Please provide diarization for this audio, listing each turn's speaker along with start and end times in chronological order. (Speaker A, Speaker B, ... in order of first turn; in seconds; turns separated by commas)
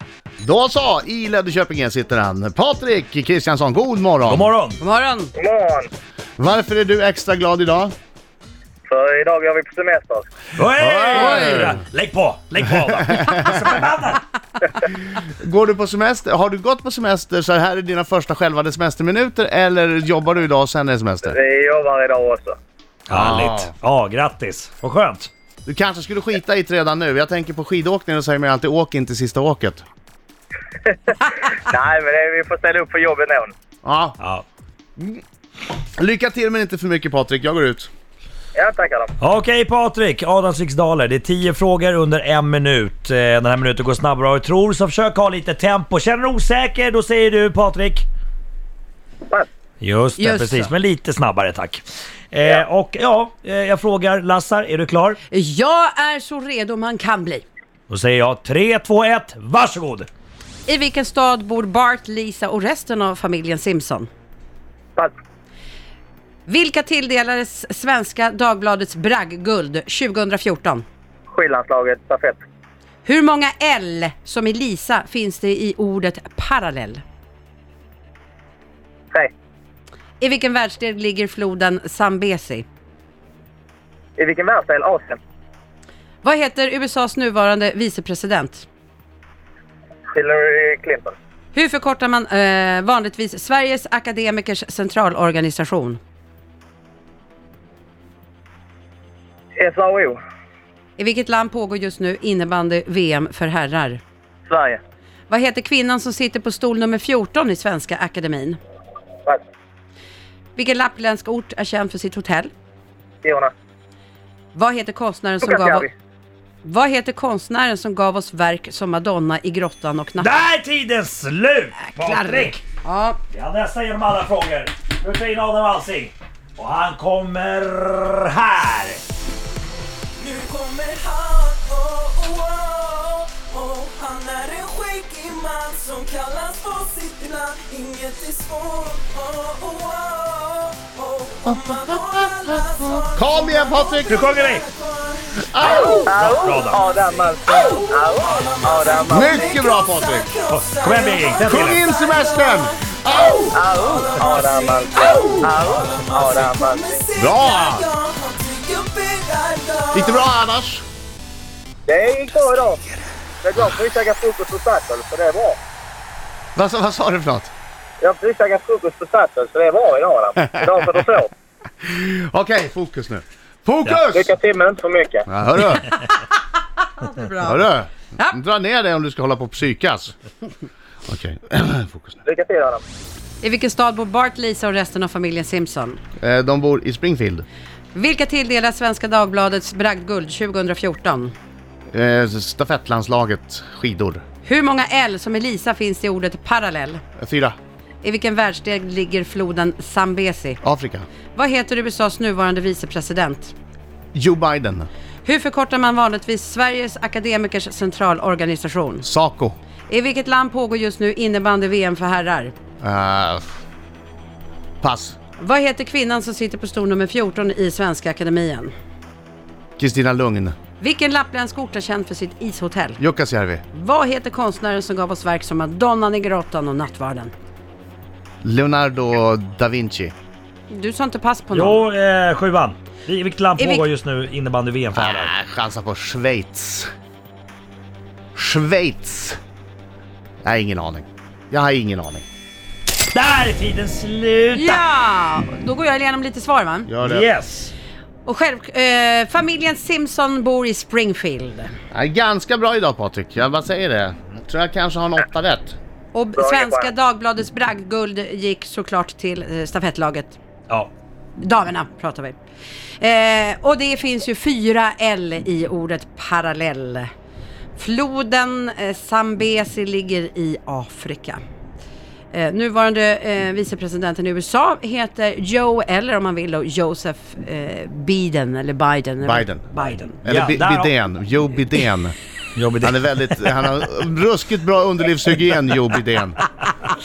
Speaker A: 0.4-4.5, Speaker B: 4.2-4.8, Speaker C: 4.8-5.3, Speaker D: 5.3-5.9, Speaker A: 6.4-7.9, Speaker D: 8.9-10.3, Speaker B: 10.6-14.2, Speaker A: 10.8-11.8, Speaker A: 15.1-21.4, Speaker D: 21.2-22.6, Speaker B: 23.1-25.3, Speaker A: 23.1-23.7, Speaker A: 25.6-29.8, Speaker D: 30.8-33.5, Speaker A: 33.8-34.2, Speaker B: 34.2-34.4, Speaker A: 36.0-37.9, Speaker D: 38.5-39.1, Speaker B: 39.2-48.0, Speaker B: 49.8-55.2, Speaker C: 50.2-50.7, Speaker C: 55.3-57.5, Speaker B: 57.9-60.1, Speaker C: 60.6-64.1, Speaker C: 66.5-70.8, Speaker D: 71.3-72.4, Speaker C: 73.0-77.0, Speaker C: 80.2-82.7, Speaker D: 84.2-85.2, Speaker C: 86.2-88.7, Speaker D: 90.1-91.1, Speaker C: 91.5-96.0, Speaker D: 99.6-100.2, Speaker C: 101.0-104.0, Speaker D: 104.5-104.8, Speaker C: 105.3-108.6, Speaker C: 110.5-112.5, Speaker D: 113.2-113.5, Speaker C: 114.5-115.9, Speaker D: 115.4-115.9, Speaker C: 116.6-120.3, Speaker B: 120.2-122.6, Speaker C: 121.9-123.2, Speaker B: 123.3-129.0, Speaker E: 130.2-160.3, Speaker A: 141.4-144.2, Speaker B: 144.1-144.6, Speaker A: 145.4-146.1, Speaker B: 145.6-146.8, Speaker D: 145.7-149.4, Speaker A: 149.1-150.3, Speaker B: 150.5-151.8, Speaker A: 151.4-153.6, Speaker D: 153.1-157.0, Speaker A: 157.2-157.9, Speaker A: 159.9-160.8, Speaker D: 161.9-162.8, Speaker D: 163.4-165.6, Speaker A: 166.6-167.5, Speaker D: 168.0-171.3, Speaker A: 171.8-174.3, Speaker D: 174.1-175.2, Speaker A: 175.3-176.0, Speaker C: 177.0-177.6, Speaker A: 177.4-180.1, Speaker A: 181.1-182.2, Speaker D: 182.2-182.8, Speaker C: 183.4-186.0, Speaker A: 186.2-187.4, Speaker C: 187.9-191.3, Speaker A: 191.9-194.2, Speaker C: 194.4-197.0, Speaker A: 197.2-197.5, Speaker C: 198.0-200.6, Speaker A: 200.6-201.1, Speaker C: 201.3-203.5, Speaker A: 204.1-204.9, Speaker C: 205.2-209.1, Speaker A: 209.0-209.6, Speaker C: 209.9-212.5, Speaker A: 212.8-213.4, Speaker A: 214.8-215.2, Speaker C: 215.4-218.7, Speaker A: 219.8-220.6, Speaker C: 220.8-223.0, Speaker A: 223.0-223.6, Speaker C: 223.7-227.3, Speaker A: 228.4-230.1, Speaker C: 230.7-231.8, Speaker B: 231.5-235.3, Speaker C: 233.6-233.8, Speaker A: 234.9-236.9, Speaker A: 238.3-239.4, Speaker A: 240.4-242.2, Speaker B: 243.1-244.8, Speaker C: 244.5-246.9, Speaker A: 246.9-247.3, Speaker B: 247.0-247.7, Speaker C: 248.2-251.7, Speaker A: 251.9-255.8, Speaker C: 256.1-260.4, Speaker D: 256.4-256.9, Speaker C: 261.4-262.4, Speaker C: 263.0-267.1, Speaker C: 267.8-271.4, Speaker C: 272.3-280.2, Speaker A: 279.2-279.6, Speaker A: 280.2-282.2, Speaker B: 280.2-280.9, Speaker B: 282.5-283.0, Speaker A: 282.8-286.4